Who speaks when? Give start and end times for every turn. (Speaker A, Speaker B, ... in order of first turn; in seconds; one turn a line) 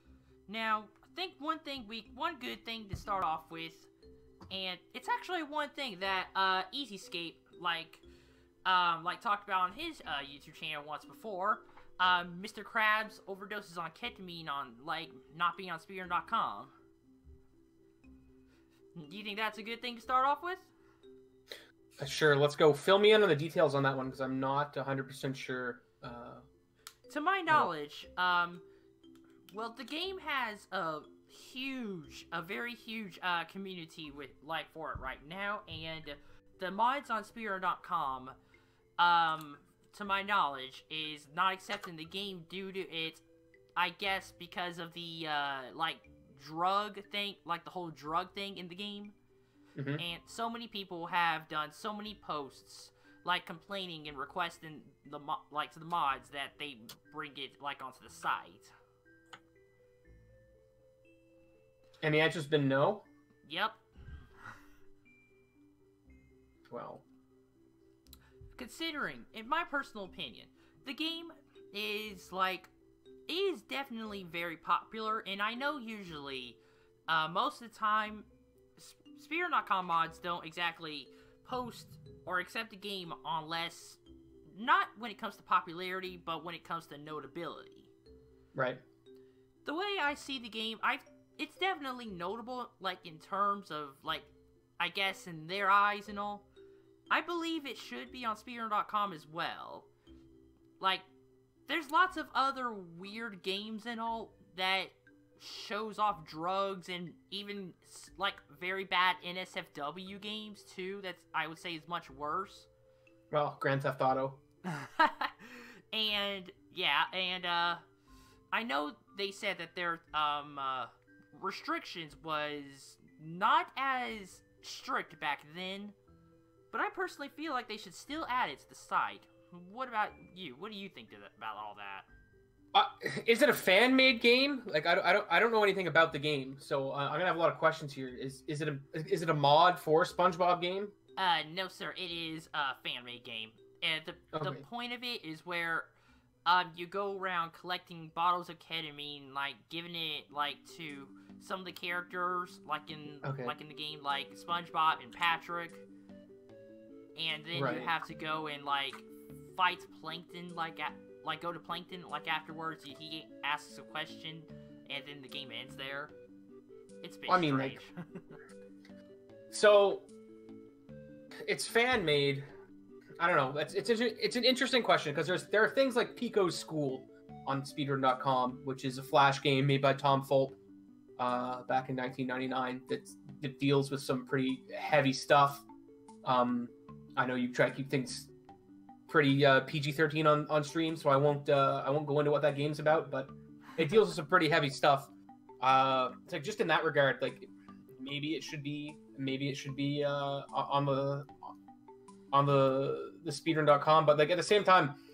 Speaker A: 0.5-3.9
Speaker A: 4.5-8.1
Speaker A: 8.7-16.7
Speaker A: 18.9-20.7
Speaker B: 22.0-26.5
Speaker A: 27.1-28.6
Speaker A: 29.5-38.4
Speaker A: 39.0-43.2
Speaker A: 43.8-49.2
Speaker B: 49.8-50.0
Speaker A: 50.0-58.7
Speaker B: 62.0-63.0
Speaker A: 63.5-63.8
Speaker B: 66.7-67.0
Speaker A: 68.5-72.7
Speaker A: 73.3-87.9
Speaker B: 88.5-88.8
Speaker A: 89.7-96.5
Speaker A: 97.1-99.9
Speaker A: 100.8-101.1
Speaker A: 101.7-112.7
Speaker B: 113.3-114.4
Speaker A: 114.7-117.8
Speaker A: 118.5-126.0
Speaker A: 126.7-132.1
Speaker B: 132.7-140.9
Speaker A: 141.2-145.9
Speaker B: 144.3-144.7
Speaker A: 146.5-155.8
Speaker B: 153.2-153.6
Speaker A: 157.2-166.1
Speaker B: 157.6-157.9
Speaker A: 167.0-168.4
Speaker B: 167.3-167.8
Speaker B: 169.5-170.1
Speaker B: 171.4-172.5
Speaker B: 173.2-180.6
Speaker B: 181.2-185.7
Speaker B: 186.2-188.3
Speaker B: 189.1-201.5
Speaker B: 202.3-205.0